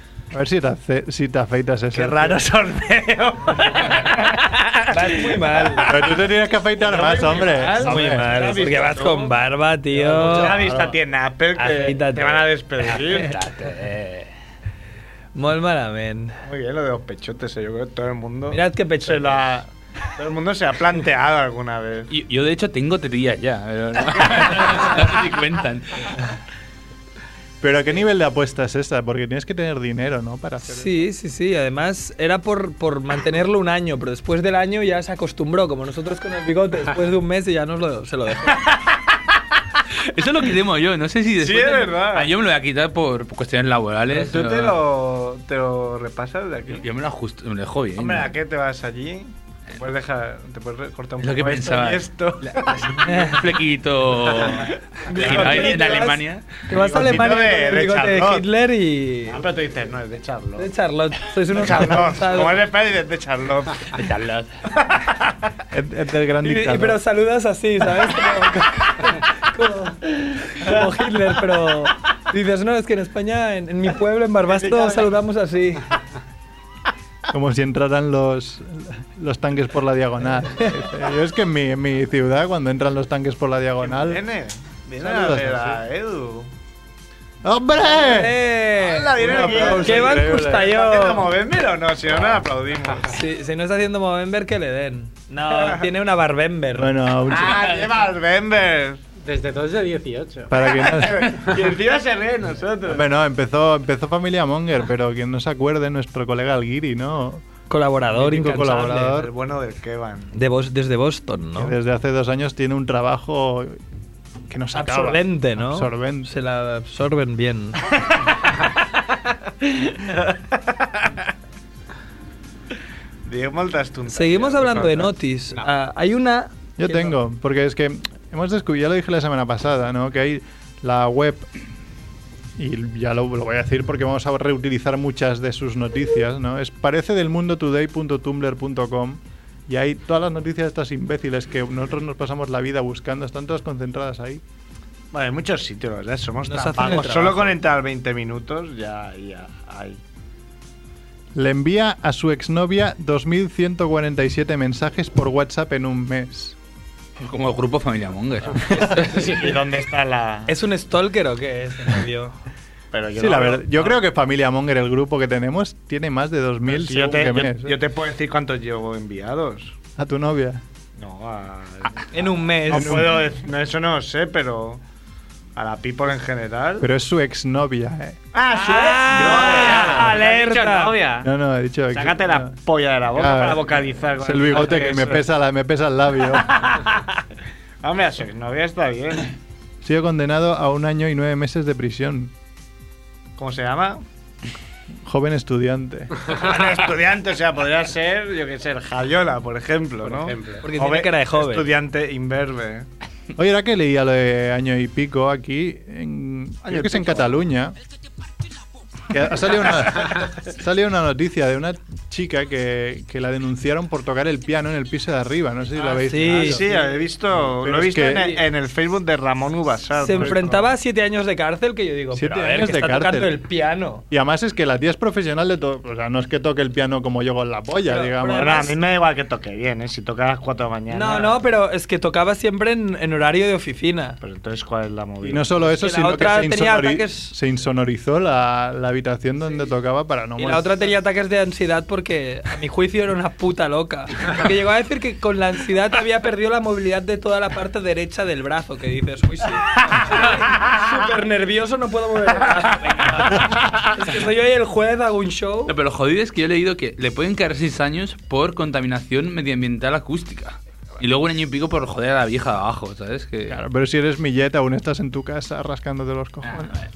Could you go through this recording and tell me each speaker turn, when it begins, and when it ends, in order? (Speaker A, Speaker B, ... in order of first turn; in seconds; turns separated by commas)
Speaker A: 0.3-2.4, Speaker B: 1.9-6.2, Speaker C: 4.9-5.9, Speaker A: 5.8-8.5, Speaker B: 6.8-9.3, Speaker C: 7.5-10.7, Speaker B: 9.9-13.4, Speaker C: 11.6-12.5, Speaker D: 13.1-14.3, Speaker C: 15.3-16.4, Speaker B: 16.4-22.1, Speaker C: 18.5-19.4, Speaker D: 22.1-26.2, Speaker A: 27.6-31.1, Speaker C: 30.7-38.6, Speaker D: 40.0-44.8, Speaker B: 41.4-42.3, Speaker B: 44.1-46.8, Speaker D: 46.7-48.3, Speaker B: 48.0-53.2, Speaker D: 51.2-56.5, Speaker C: 53.0-53.4, Speaker B: 54.2-56.1, Speaker C: 55.0-59.4, Speaker B: 56.7-58.4, Speaker A: 56.8-57.2, Speaker B: 59.3-60.7, Speaker C: 60.6-62.6, Speaker B: 61.5-63.9, Speaker D: 63.9-64.5, Speaker B: 64.8-65.2, Speaker A: 65.7-67.0, Speaker C: 66.4-75.9, Speaker B: 74.5-75.1, Speaker A: 77.3-84.2, Speaker B: 83.8-86.5, Speaker A: 85.0-85.8, Speaker A: 87.4-88.4, Speaker C: 87.8-91.3, Speaker B: 88.8-93.2, Speaker A: 89.2-90.7, Speaker C: 93.1-96.9, Speaker B: 95.5-95.9, Speaker A: 96.7-97.8, Speaker B: 97.3-99.0, Speaker E: 99.2-100.5, Speaker A: 100.5-101.4, Speaker B: 100.8-103.1, Speaker A: 102.9-107.4, Speaker C: 107.7-109.1, Speaker A: 108.1-109.3, Speaker B: 109.0-110.3, Speaker C: 110.3-111.7, Speaker A: 111.5-113.8, Speaker A: 114.5-116.3, Speaker C: 114.7-117.8, Speaker B: 119.7-121.1, Speaker B: 123.2-125.1, Speaker C: 124.1-127.1, Speaker A: 126.8-131.5, Speaker A: 132.6-144.4, Speaker B: 145.1-150.0, Speaker C: 146.4-147.6, Speaker A: 151.3-156.6, Speaker D: 157.2-159.4, Speaker B: 159.0-160.5, Speaker C: 160.5-162.3, Speaker B: 162.9-163.9, Speaker A: 163.1-167.8, Speaker B: 166.7-169.8, Speaker A: 169.9-170.6, Speaker B: 170.9-174.8, Speaker C: 172.1-173.0, Speaker A: 172.7-173.2, Speaker B: 175.5-176.9, Speaker A: 176.8-178.2, Speaker B: 178.3-181.3, Speaker C: 178.6-180.9, Speaker A: 181.2-182.6, Speaker B: 181.9-185.3, Speaker A: 183.1-186.7, Speaker B: 186.3-187.1, Speaker B: 187.8-189.3, Speaker A: 189.8-192.3, Speaker B: 193.4-194.0, Speaker A: 195.0-196.3, Speaker B: 196.2-202.9, Speaker E: 200.0-200.7, Speaker C: 200.6-201.7, Speaker A: 203.3-207.8, Speaker B: 206.6-207.4, Speaker A: 209.1-216.8, Speaker C: 215.8-216.6, Speaker B: 216.2-220.7, Speaker A: 217.4-218.4, Speaker C: 220.0-224.0, Speaker A: 222.1-223.4, Speaker A: 224.1-228.6, Speaker C: 227.8-228.8, Speaker B: 228.3-231.4, Speaker C: 230.9-234.2, Speaker B: 234.2-235.6, Speaker A: 235.2-240.8, Speaker C: 235.6-237.3, Speaker C: 240.4-255.7, Speaker D: 255.7-263.6, Speaker A: 263.5-266.8, Speaker D: 266.4-266.8